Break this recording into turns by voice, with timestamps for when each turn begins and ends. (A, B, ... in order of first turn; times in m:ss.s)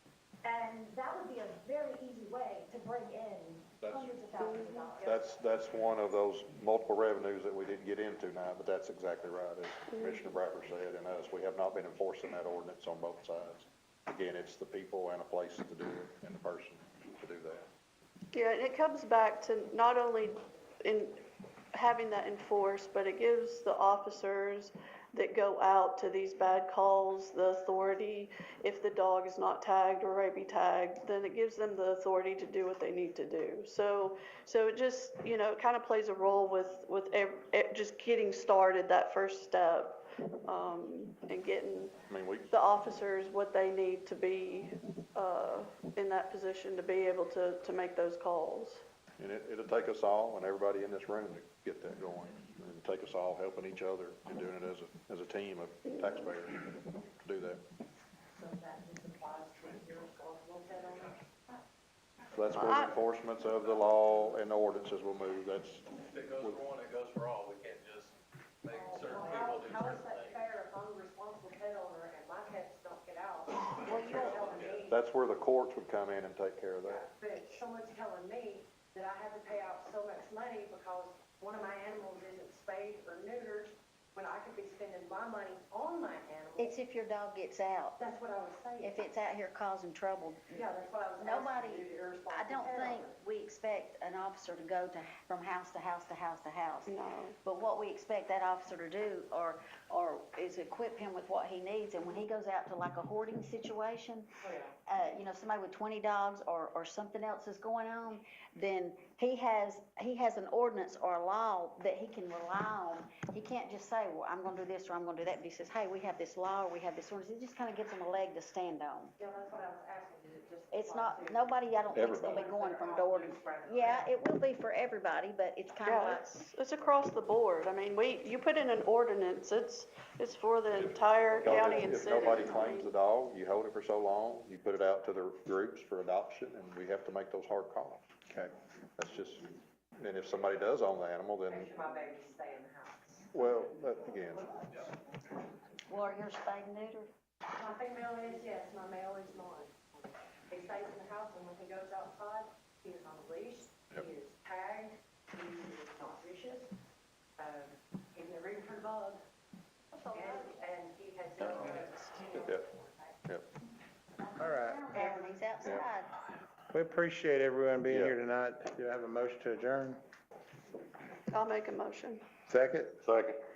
0:00.4-0:05.2 A
0:03.8-0:04.1 B
0:04.4-0:04.9 C
0:05.0-0:17.6 B
0:10.0-0:10.2 C
0:18.3-0:41.9 C
0:42.1-0:42.4 B
0:42.5-0:48.8 C
0:49.2-0:57.6 B
0:58.3-1:01.6 D
1:02.3-1:05.9 B
1:02.5-1:03.0 C
1:03.7-1:04.2 E
1:06.0-1:10.4 E
1:08.7-1:15.0 D
1:13.9-1:14.4 F
1:14.2-1:14.8 E
1:14.9-1:17.0 B
1:16.8-1:26.7 D
1:26.6-1:28.0 F
1:28.0-1:29.1 D
1:28.8-1:30.6 F
1:30.5-1:33.1 D
1:31.2-1:59.2 F
1:36.9-1:37.3 C
1:44.4-1:44.7 D
1:59.2-2:01.5 D
2:00.7-2:06.3 F
2:01.9-2:02.4 B
2:02.1-2:04.1 D
2:05.8-2:12.9 C
2:10.8-2:18.1 B
2:11.7-2:12.5 F
2:18.3-2:18.5 G
2:19.0-2:21.7 B
2:21.5-2:23.3 D
2:23.3-2:24.5 B
2:25.9-2:27.1 F
2:27.5-2:36.7 D
2:37.4-2:39.2 D
2:39.9-2:43.2 D
2:40.0-2:40.4 F
2:44.2-2:46.1 F
2:44.4-2:44.9 G
2:46.7-2:50.0 G
2:47.9-2:48.1 B
2:51.3-2:52.2 C
2:52.5-2:53.1 G